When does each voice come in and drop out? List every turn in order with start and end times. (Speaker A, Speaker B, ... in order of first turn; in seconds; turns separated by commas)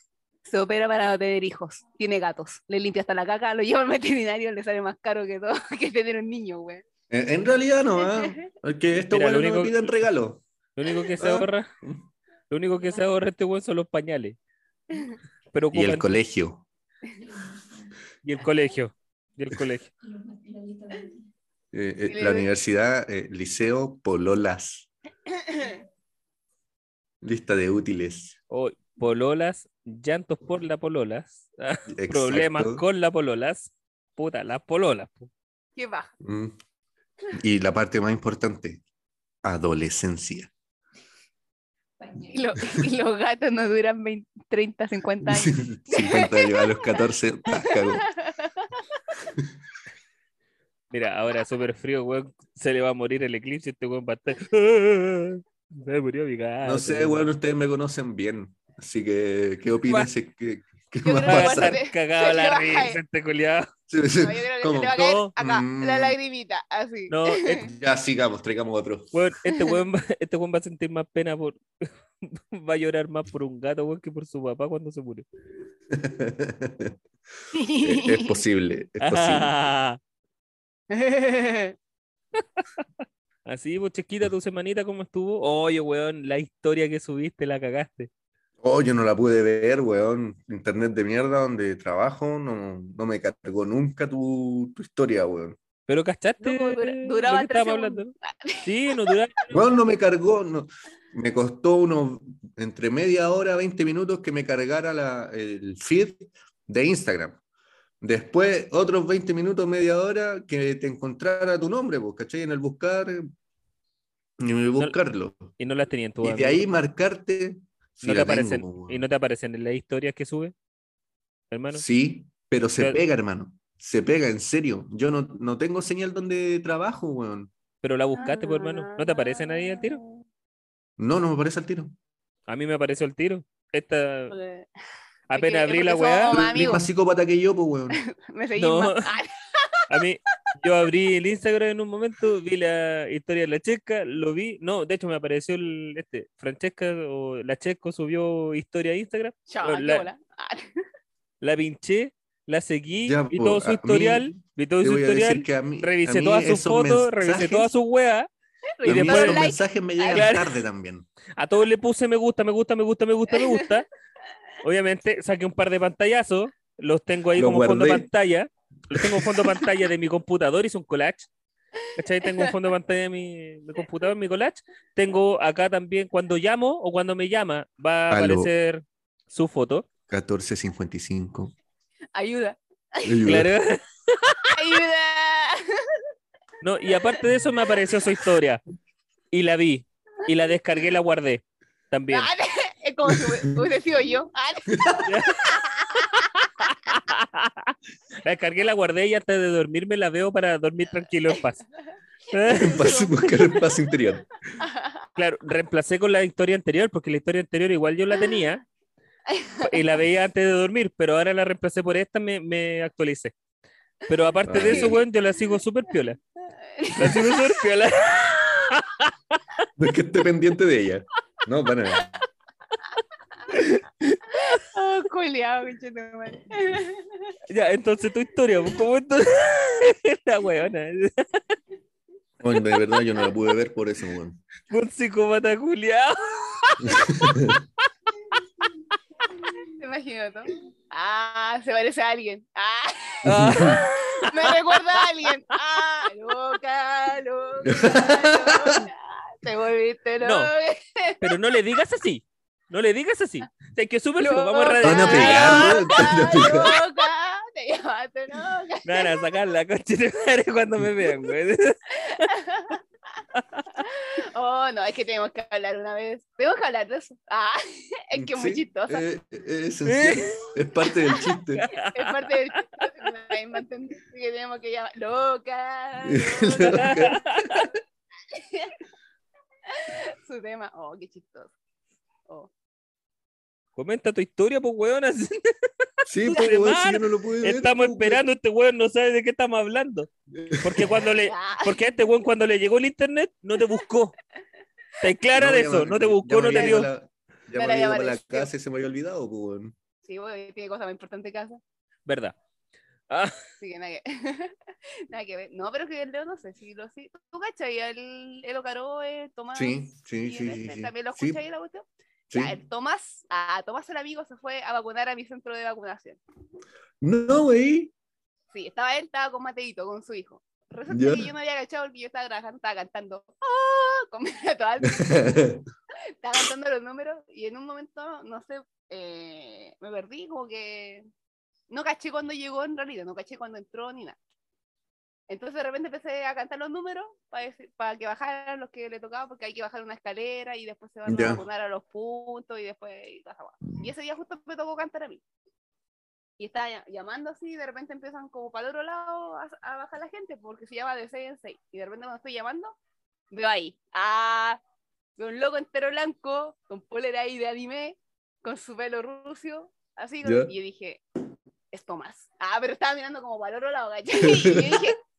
Speaker A: 0.5-6.8, Speaker B: 7.1-10.4, Speaker A: 8.0-8.5, Speaker C: 9.1-9.8, Speaker C: 10.8-11.7, Speaker B: 11.2-12.0, Speaker C: 12.5-14.4, Speaker A: 14.9-15.2, Speaker C: 15.5-16.1, Speaker B: 15.7-16.6, Speaker D: 17.1-18.0, Speaker C: 18.2-19.9, Speaker D: 20.0-21.3, Speaker B: 21.7-24.9, Speaker A: 22.1-22.5, Speaker A: 25.3-25.8, Speaker B: 27.2-28.4, Speaker C: 28.5-35.3, Speaker B: 31.9-32.8, Speaker A: 35.8-36.1, Speaker B: 36.2-36.6, Speaker B: 37.3-38.8, Speaker B: 39.4-40.5, Speaker D: 42.0-42.6, Speaker A: 42.3-46.9, Speaker B: 45.2-48.1, Speaker A: 47.6-49.0, Speaker C: 50.9-57.3, Speaker B: 56.6-61.8, Speaker A: 61.0-63.0, Speaker C: 61.2-63.7, Speaker B: 63.9-66.2, Speaker A: 64.2-67.6, Speaker C: 65.0-65.3, Speaker C: 67.1-67.7, Speaker B: 67.6-69.1, Speaker C: 69.1-75.3, Speaker B: 75.9-77.0, Speaker A: 77.5-78.4, Speaker B: 77.8-79.5, Speaker C: 79.0-80.0, Speaker A: 80.9-81.8, Speaker C: 83.5-88.1, Speaker B: 88.6-95.6, Speaker C: 95.9-98.1, Speaker A: 96.4-99.1, Speaker C: 98.6-99.6, Speaker B: 99.5-107.4, Speaker B: 108.0-113.3, Speaker B: 114.4-115.5, Speaker C: 115.6-116.6, Speaker B: 116.2-119.0, Speaker C: 118.0-120.5, Speaker C: 121.5-121.8, Speaker B: 121.7-127.5, Speaker C: 127.8-130.0, Speaker A: 128.2-130.2, Speaker B: 131.0-131.9, Speaker C: 132.5-134.3, Speaker A: 134.3-134.7, Speaker C: 135.3-136.4, Speaker A: 135.3-136.8, Speaker B: 136.3-138.0, Speaker A: 137.9-140.0, Speaker C: 138.6-139.2, Speaker C: 139.9-150.1, Speaker A: 149.5-150.7, Speaker C: 151.4-158.3, Speaker B: 153.1-157.7, Speaker A: 158.8-160.3, Speaker C: 158.8-159.5, Speaker B: 158.8-161.1, Speaker C: 160.1-160.6, Speaker C: 161.4-163.9, Speaker A: 163.3-163.7, Speaker C: 164.6-171.3, Speaker B: 167.3-168.1, Speaker B: 168.9-169.4, Speaker C: 172.0-179.9, Speaker A: 172.2-172.5, Speaker B: 178.1-178.5, Speaker B: 180.1-181.5, Speaker A: 182.2-183.2, Speaker B: 183.1-183.5, Speaker C: 183.2-184.5, Speaker A: 184.5-186.0, Speaker C: 186.6-188.6, Speaker C: 189.3-192.3, Speaker A: 192.1-194.9, Speaker B: 193.1-193.6, Speaker B: 194.7-195.2, Speaker C: 195.1-195.5, Speaker A: 195.4-196.3, Speaker C: 196.2-201.7, Speaker C: 202.3-203.4, Speaker A: 202.4-203.3, Speaker B: 202.5-204.3, Speaker A: 204.6-205.0, Speaker C: 205.2-208.6, Speaker A: 209.3-209.8, Speaker C: 209.6-213.3, Speaker C: 214.1-216.2, Speaker B: 214.5-215.0, Speaker A: 216.6-217.6, Speaker C: 216.9-219.4, Speaker B: 219.8-222.2, Speaker B: 223.6-223.8, Speaker A: 224.3-227.3, Speaker C: 227.5-231.6, Speaker B: 232.4-234.4, Speaker C: 234.7-237.4, Speaker B: 236.8-237.6, Speaker A: 239.4-251.3, Speaker B: 243.2-243.8, Speaker C: 243.3-245.3, Speaker B: 247.7-248.8, Speaker C: 250.2-250.5, Speaker C: 251.2-256.0, Speaker A: 254.2-259.3, Speaker B: 254.8-256.8, Speaker C: 258.9-262.3, Speaker A: 262.1-262.8, Speaker C: 263.4-263.7, Speaker A: 263.8-269.0, Speaker B: 268.1-271.7, Speaker C: 269.9-270.5, Speaker C: 271.6-272.6, Speaker A: 271.8-277.0, Speaker B: 276.1-277.7, Speaker C: 276.7-277.7, Speaker A: 278.3-278.8, Speaker A: 279.7-281.6, Speaker C: 283.8-285.5, Speaker B: 286.1-288.2, Speaker C: 286.2-290.1, Speaker B: 290.3-290.9, Speaker C: 290.6-294.2, Speaker A: 291.2-291.9, Speaker C: 295.0-296.9, Speaker B: 295.4-299.8, Speaker A: 296.5-296.9, Speaker A: 297.6-298.5, Speaker A: 300.1-301.6, Speaker C: 302.1-302.4, Speaker C: 303.1-303.4, Speaker A: 303.6-304.6, Speaker A: 305.1-316.2, Speaker B: 309.6-311.4, Speaker B: 312.3-312.6, Speaker B: 317.0-317.9, Speaker A: 318.5-325.5, Speaker B: 320.9-321.3, Speaker B: 324.8-325.6, Speaker A: 326.2-331.1, Speaker A: 331.7-334.2, Speaker A: 335.3-345.2, Speaker B: 341.1-341.4, Speaker A: 346.4-352.8, Speaker A: 353.3-354.6, Speaker A: 355.2-361.0, Speaker B: 360.2-360.5, Speaker A: 361.7-365.0, Speaker B: 364.2-364.9